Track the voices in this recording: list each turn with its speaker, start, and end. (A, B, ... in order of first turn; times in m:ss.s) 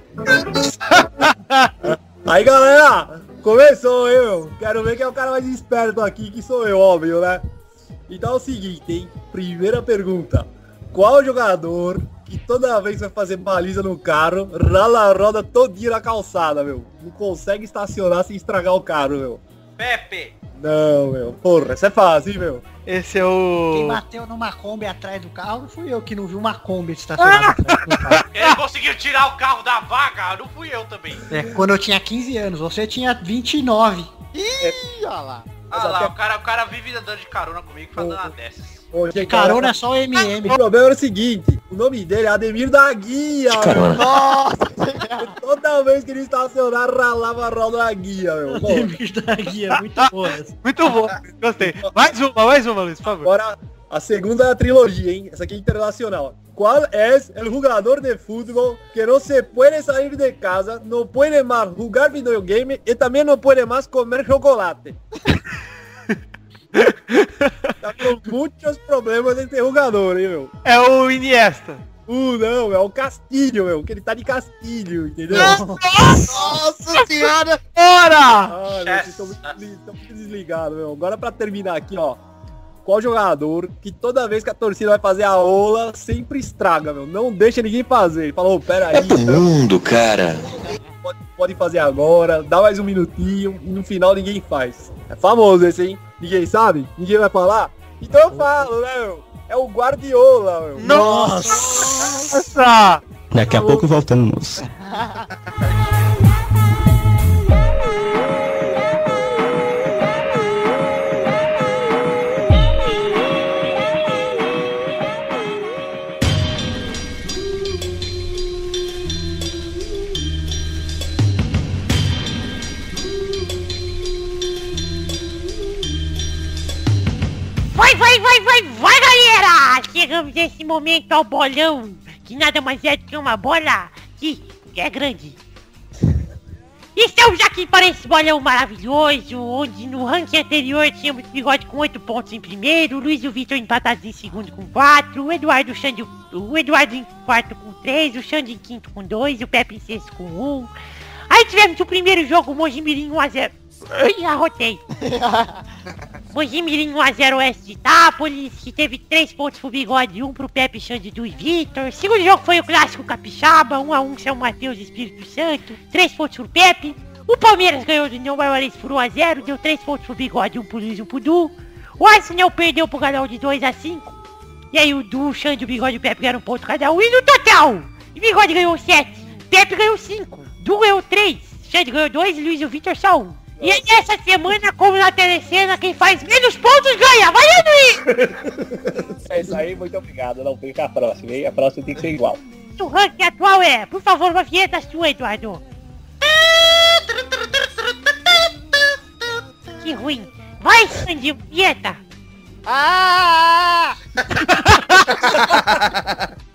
0:00.9-0:01.7 A
0:01.8-0:07.4 B
0:08.1-0:19.4 B
0:19.8-0:20.3 C
0:20.6-0:22.6 B
0:22.8-0:24.0 A
0:23.7-0:28.3 D
0:27.2-0:27.6 A
0:28.1-0:28.5 A
0:28.3-0:31.2 C
0:31.3-0:34.1 D
0:34.3-0:35.5 E
0:35.7-0:38.8 C
0:35.7-0:36.1 B
0:38.0-0:38.3 B
0:38.9-0:39.7 B
0:39.2-0:40.6 D
0:40.4-0:44.0 B
0:43.5-0:43.9 F
0:43.9-0:45.4 E
0:45.2-0:49.0 B
0:48.5-0:50.5 D
0:49.7-0:53.3 A
0:51.6-0:52.1 B
0:53.2-1:05.0 B
1:06.8-1:07.7 A
1:07.8-1:10.5 B
1:10.6-1:11.8 A
1:12.1-1:15.6 B
1:15.3-1:15.8 D
1:15.3-1:16.5 A
1:16.2-1:17.6 G
1:17.7-1:18.5 A
1:18.5-1:22.2 B
1:18.7-1:19.6 C
1:22.8-1:29.5 B
1:28.9-1:30.4 F
1:31.0-1:41.0 B
1:40.8-1:43.0 A
1:40.8-1:42.3 D
1:43.3-1:44.6 F
1:44.7-1:45.2 E
2:07.7-2:15.4 H
2:17.0-2:30.7 H
2:31.3-2:34.8 H
2:34.9-2:35.6 E
2:36.3-2:54.1 H
2:54.7-3:08.0 H
3:03.6-3:03.8 B
3:08.1-3:12.4 B
3:12.8-3:15.6 H
3:16.2-3:18.5 C
3:19.8-3:22.0 H
3:22.6-3:23.8 E
3:24.5-3:25.1 A
3:25.1-3:26.3 G